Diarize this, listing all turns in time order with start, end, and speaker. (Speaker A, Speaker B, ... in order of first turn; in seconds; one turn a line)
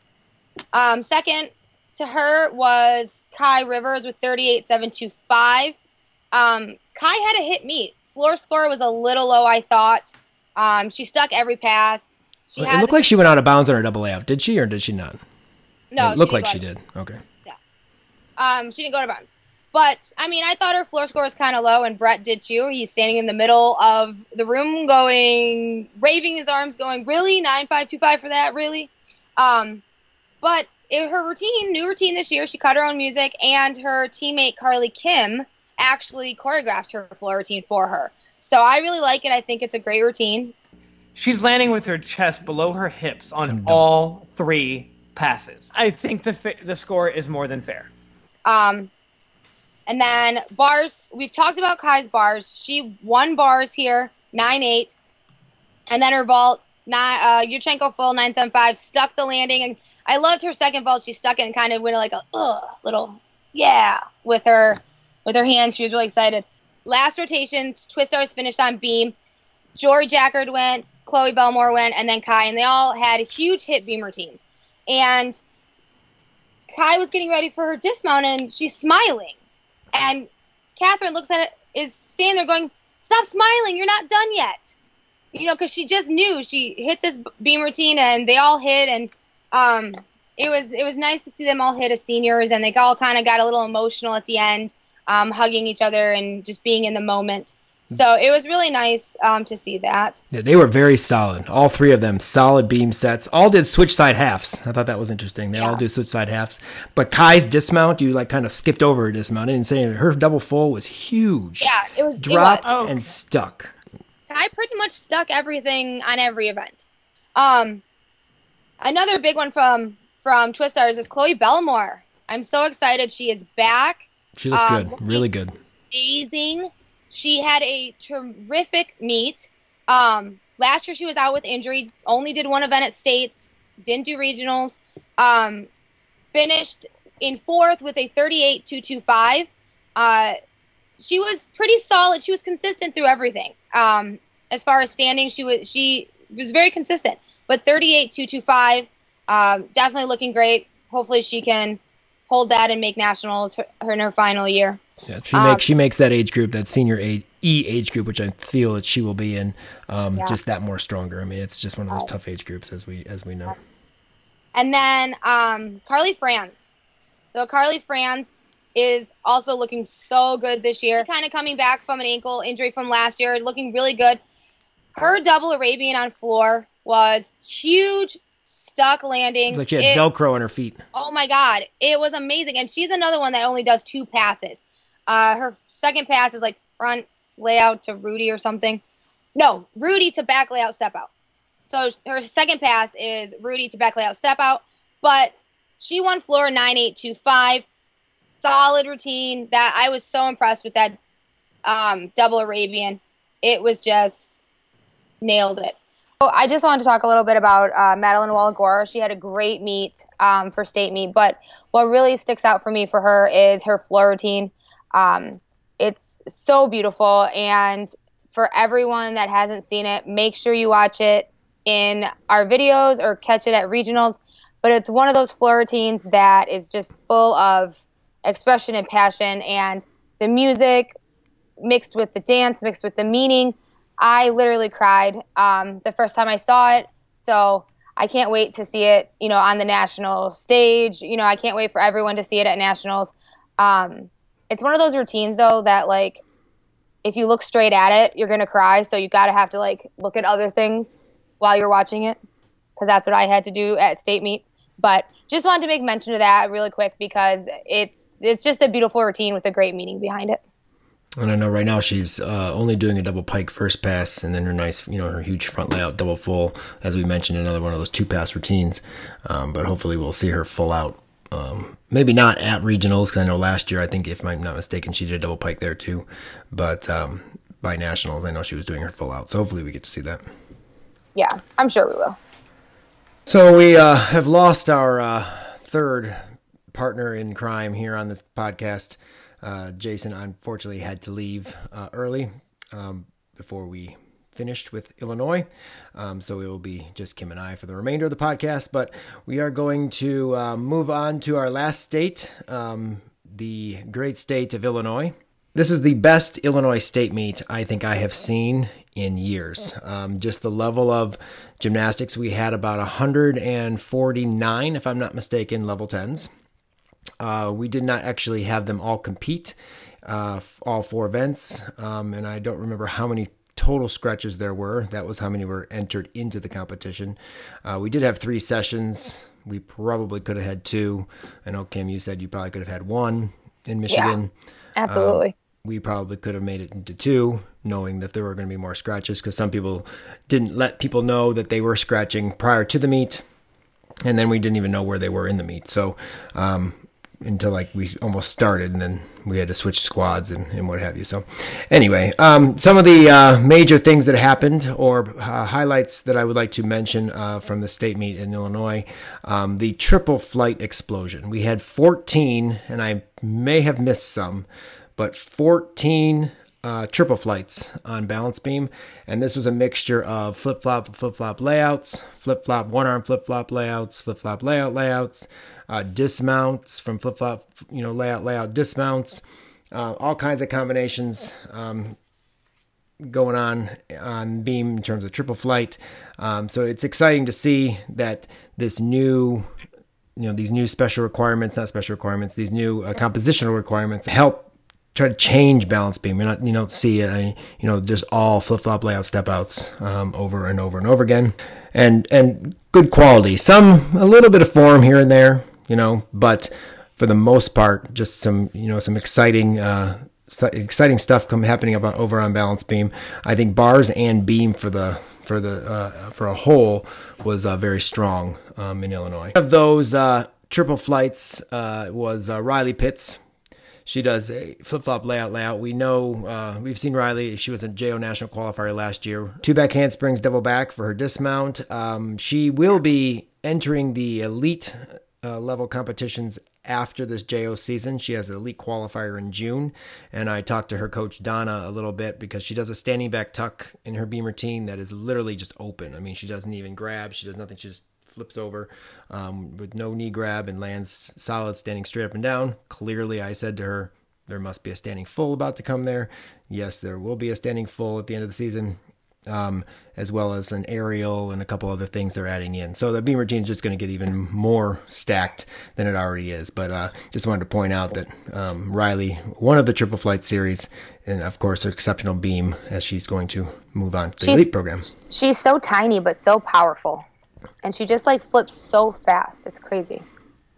Speaker A: 0.7-5.8
Speaker A: 6.3-13.0
Speaker B: 12.6-15.2
Speaker A: 15.9-16.6
Speaker B: 16.0-17.2
Speaker A: 18.4-29.8
Speaker A: 30.4-40.5
Speaker C: 41.1-47.9
Speaker B: 43.4-43.8
Speaker A: 48.4-48.9
Speaker A: 49.9-54.9
Speaker A: 55.9-69.1
Speaker A: 69.8-75.4
Speaker A: 76.7-79.3
Speaker A: 79.9-84.7
Speaker A: 85.3-100.2
Speaker B: 100.3-113.7
Speaker A: 111.6-112.6
Speaker C: 112.6-113.0
Speaker A: 114.3-116.8
Speaker A: 117.3-117.8
Speaker A: 118.8-125.2
Speaker B: 124.3-125.5
Speaker A: 125.9-135.7
Speaker A: 136.3-140.3
Speaker A: 141.0-154.8
Speaker B: 155.0-163.6
Speaker A: 155.3-155.6
Speaker A: 164.5-166.7
Speaker A: 167.3-174.2
Speaker A: 174.9-180.0
Speaker B: 179.5-180.8
Speaker A: 180.9-188.8
Speaker A: 189.3-191.1
Speaker A: 191.7-197.6
Speaker A: 198.4-201.0
Speaker A: 201.6-204.3
Speaker A: 205.2-230.9
Speaker A: 231.6-246.2
Speaker A: 247.0-252.2
Speaker A: 252.8-260.4
Speaker B: 261.2-280.2
Speaker A: 281.1-282.2
Speaker B: 283.2-316.3
Speaker B: 317.2-334.3
Speaker A: 333.9-334.1
Speaker A: 334.8-335.3
Speaker B: 334.9-343.2
Speaker B: 344.0-382.0
Speaker B: 383.0-389.5
Speaker B: 390.1-423.2
Speaker B: 423.9-474.9
Speaker A: 474.2-477.1
Speaker A: 477.6-480.0